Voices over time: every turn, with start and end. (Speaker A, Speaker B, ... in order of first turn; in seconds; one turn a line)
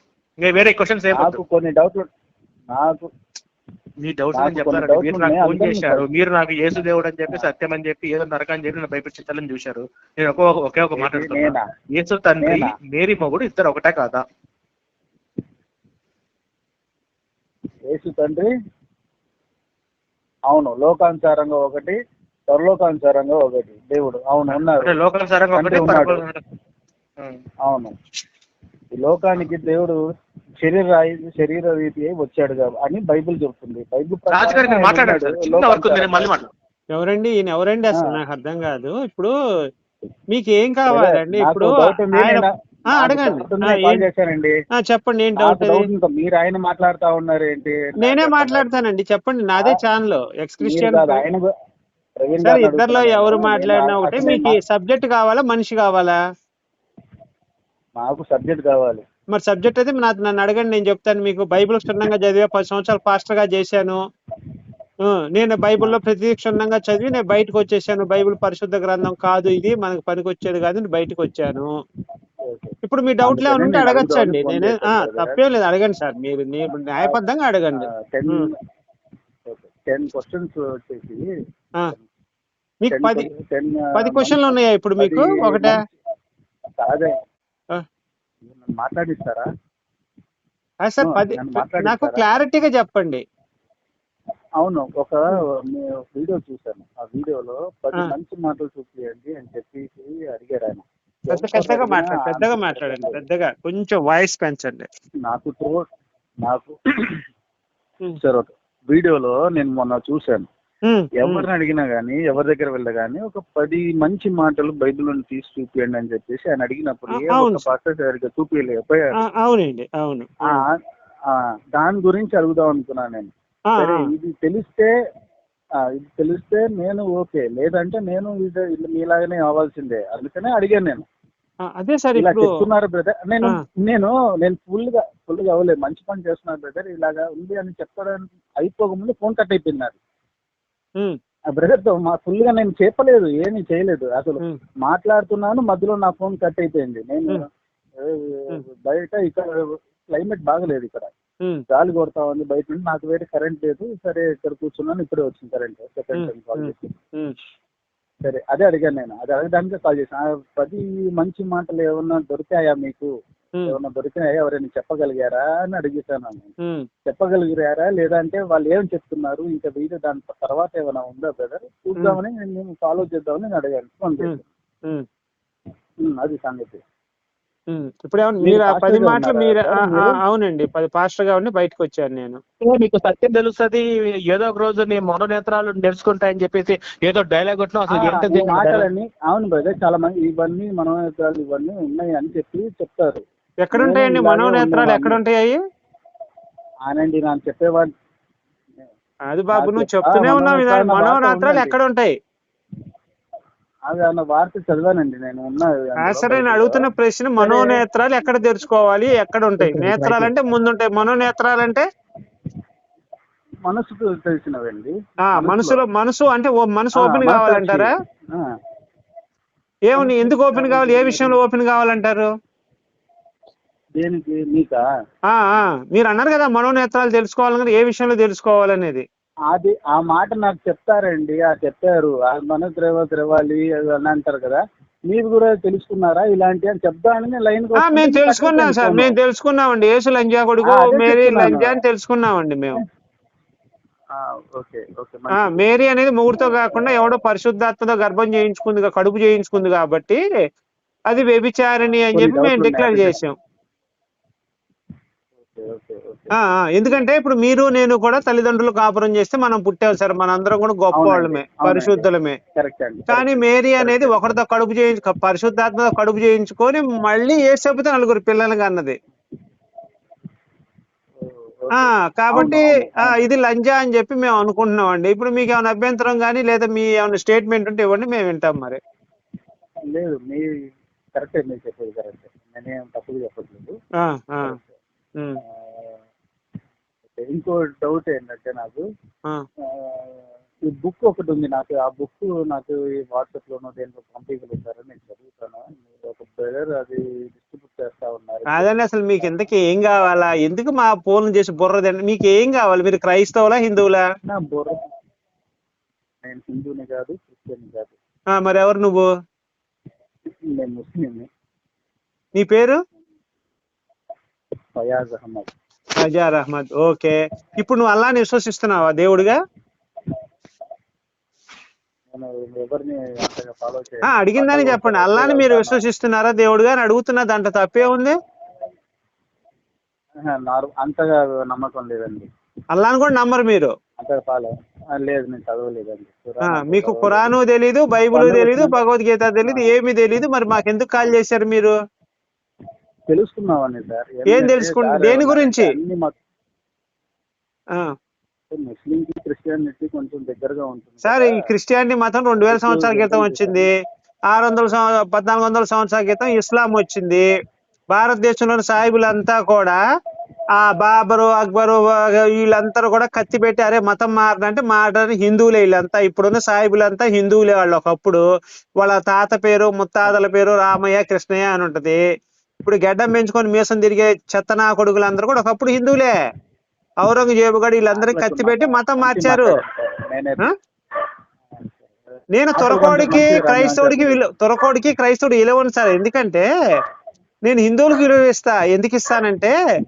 Speaker A: 0.4-1.4
Speaker B: 1.1-2.0
Speaker B: 2.7-3.1
Speaker A: 4.0-14.2
Speaker B: 4.3-6.0
Speaker B: 10.9-11.6
Speaker B: 12.4-12.7
Speaker B: 17.9-18.5
Speaker B: 20.5-21.9
Speaker B: 22.5-24.9
Speaker A: 24.5-26.4
Speaker B: 25.5-26.2
Speaker B: 27.6-27.9
Speaker B: 28.9-30.0
Speaker B: 30.6-36.4
Speaker A: 34.3-36.5
Speaker C: 36.9-39.3
Speaker C: 40.3-42.5
Speaker B: 40.9-44.5
Speaker C: 43.0-44.0
Speaker C: 44.8-45.8
Speaker B: 45.4-48.7
Speaker C: 48.0-51.2
Speaker B: 50.6-51.5
Speaker B: 52.2-54.6
Speaker C: 52.4-56.1
Speaker B: 58.0-59.0
Speaker C: 59.3-64.0
Speaker C: 65.1-71.7
Speaker B: 72.4-75.4
Speaker C: 72.8-78.5
Speaker B: 77.8-78.5
Speaker B: 79.5-81.2
Speaker C: 82.8-83.2
Speaker B: 82.9-85.9
Speaker C: 84.0-85.7
Speaker B: 86.8-87.1
Speaker B: 88.5-89.5
Speaker C: 90.8-93.2
Speaker B: 91.0-92.2
Speaker B: 94.6-95.2
Speaker B: 95.7-103.2
Speaker C: 101.3-104.9
Speaker B: 105.2-105.8
Speaker B: 106.4-107.2
Speaker B: 108.2-110.5
Speaker C: 110.9-111.4
Speaker B: 111.2-119.2
Speaker C: 117.2-117.7
Speaker C: 119.2-120.6
Speaker B: 120.5-120.8
Speaker B: 121.3-124.9
Speaker C: 123.7-124.0
Speaker B: 126.0-131.0
Speaker C: 131.7-132.4
Speaker B: 132.1-140.0
Speaker B: 141.5-147.4
Speaker B: 148.0-149.4
Speaker B: 150.1-151.1
Speaker B: 151.7-156.9
Speaker C: 156.1-157.3
Speaker B: 158.2-163.1
Speaker B: 163.7-166.5
Speaker B: 167.1-174.4
Speaker C: 174.2-175.1
Speaker B: 176.1-176.8
Speaker C: 177.7-182.4
Speaker B: 178.4-180.2
Speaker A: 182.6-188.8
Speaker B: 187.9-195.2
Speaker C: 193.6-195.6
Speaker B: 196.9-197.9
Speaker C: 199.3-202.1
Speaker B: 199.5-201.8
Speaker B: 203.9-206.9
Speaker C: 206.0-211.8
Speaker B: 207.4-208.4
Speaker B: 209.6-210.3
Speaker B: 213.7-215.8
Speaker C: 215.3-217.9
Speaker B: 216.9-218.4
Speaker C: 219.9-222.3
Speaker B: 219.9-221.4
Speaker B: 224.0-224.8
Speaker C: 225.3-229.0
Speaker B: 229.5-239.1
Speaker C: 237.8-242.8
Speaker B: 240.6-241.7
Speaker B: 244.1-245.6
Speaker C: 245.3-250.2
Speaker B: 246.3-247.1
Speaker C: 251.1-253.3
Speaker B: 251.8-253.2
Speaker B: 255.5-256.3
Speaker C: 256.4-262.4
Speaker B: 260.9-264.4
Speaker C: 263.1-269.0
Speaker B: 271.2-273.2
Speaker C: 271.8-278.8
Speaker B: 279.9-280.4
Speaker B: 281.2-283.8
Speaker C: 284.0-284.6
Speaker B: 284.4-284.8
Speaker C: 285.2-285.4
Speaker B: 285.4-286.0
Speaker B: 287.2-288.8
Speaker B: 289.7-298.7
Speaker C: 298.5-304.0
Speaker B: 304.2-304.8
Speaker B: 306.2-307.9
Speaker C: 308.3-309.1
Speaker B: 310.5-311.3
Speaker C: 312.3-312.8
Speaker B: 314.8-315.5
Speaker C: 316.0-319.4
Speaker B: 322.1-325.8
Speaker C: 324.1-328.1
Speaker B: 330.3-332.3
Speaker C: 332.7-333.7
Speaker B: 334.0-337.3
Speaker C: 336.5-341.7
Speaker B: 338.1-338.8
Speaker B: 339.4-339.7
Speaker B: 343.1-346.1
Speaker C: 344.3-345.7
Speaker B: 348.5-351.4
Speaker C: 351.0-353.7
Speaker B: 352.4-353.7
Speaker C: 354.3-357.2
Speaker C: 357.9-359.8
Speaker C: 360.6-368.2
Speaker C: 368.8-372.0
Speaker C: 372.6-376.1
Speaker C: 377.0-379.5
Speaker B: 377.9-380.5
Speaker B: 381.5-382.0
Speaker C: 382.3-386.4
Speaker B: 382.6-384.2
Speaker C: 387.4-389.5